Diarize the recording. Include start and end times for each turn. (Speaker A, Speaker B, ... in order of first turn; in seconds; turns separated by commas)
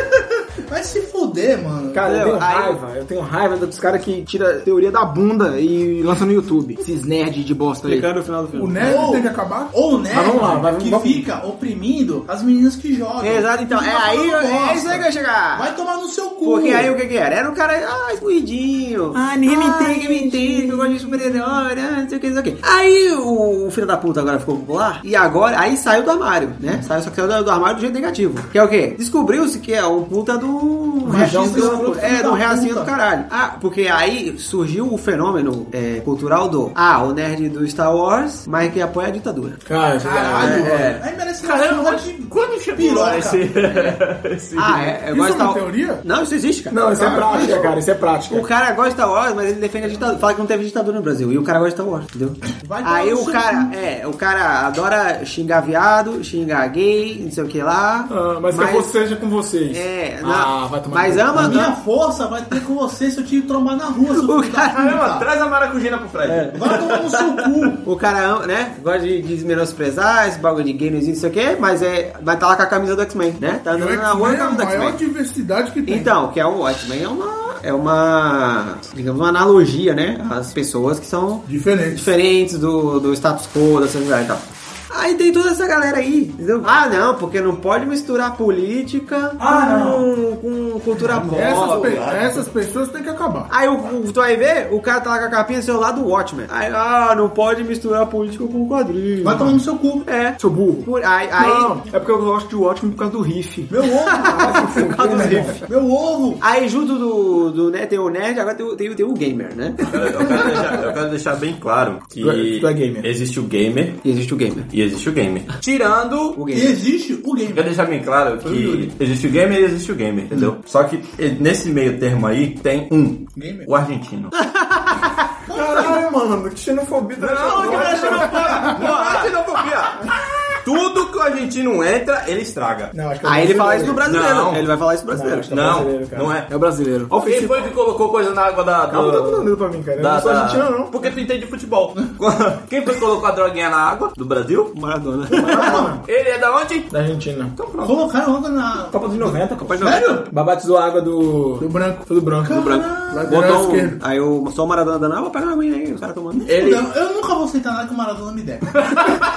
Speaker A: 0.7-2.0, Speaker B: 1.9-8.1, Speaker C: 2.0-2.8, Speaker C: 7.8-9.1, Speaker D: 8.5-9.7, Speaker A: 8.8-16.9, Speaker B: 10.1-11.2, Speaker C: 13.2-15.7, Speaker C: 16.4-39.6, Speaker B: 19.1-21.6, Speaker B: 31.0-32.0, Speaker A: 31.0-32.9, Speaker B: 39.7-41.0, Speaker A: 40.0-43.9, Speaker C: 40.4-41.0, Speaker E: 41.4-44.9, Speaker C: 44.5-47.5, Speaker D: 45.0-46.0, Speaker B: 46.7-48.5, Speaker D: 46.9-47.6, Speaker A: 47.1-47.6, Speaker C: 48.3-59.2, Speaker A: 52.6-53.7, Speaker B: 58.1-61.7, Speaker C: 59.7-61.7, Speaker A: 61.3-65.2, Speaker C: 64.1-64.8, Speaker E: 64.8-67.5, Speaker B: 66.2-66.6, Speaker A: 66.5-67.8, Speaker C: 67.8-75.0, Speaker D: 73.7-76.1, Speaker C: 75.9-92.0, Speaker D: 81.5-82.0, Speaker B: 89.4-90.1, Speaker D: 91.1-93.5, Speaker E: 91.5-92.3, Speaker C: 93.5-99.4, Speaker A: 99.2-100.0, Speaker C: 100.0-101.8, Speaker B: 100.4-105.6, Speaker A: 103.7-106.4, Speaker C: 104.0-105.7, Speaker C: 106.4-109.8, Speaker E: 109.9-114.0, Speaker B: 112.2-113.1, Speaker C: 114.0-114.7, Speaker E: 114.7-116.4, Speaker C: 116.3-116.8, Speaker A: 116.5-117.7, Speaker E: 117.5-124.3, Speaker A: 118.4-118.9, Speaker A: 123.3-123.7, Speaker C: 124.3-125.3, Speaker A: 125.5-126.0, Speaker B: 125.5-128.7, Speaker E: 127.2-130.1, Speaker C: 127.9-129.3, Speaker E: 130.6-132.9, Speaker B: 132.9-134.1, Speaker C: 133.2-135.5, Speaker E: 134.0-134.7, Speaker B: 135.1-137.7, Speaker E: 135.5-136.5, Speaker E: 137.1-144.7, Speaker B: 138.9-140.9, Speaker C: 144.7-145.8, Speaker E: 145.3-146.9, Speaker B: 145.4-146.0, Speaker A: 145.5-145.9, Speaker B: 146.9-147.5, Speaker E: 147.6-148.0, Speaker A: 147.8-150.3, Speaker B: 148.9-152.8, Speaker C: 149.6-150.3, Speaker D: 151.6-152.1, Speaker A: 152.4-153.3, Speaker C: 152.5-156.5, Speaker D: 153.1-154.0, Speaker E: 156.5-156.8, Speaker A: 156.5-159.2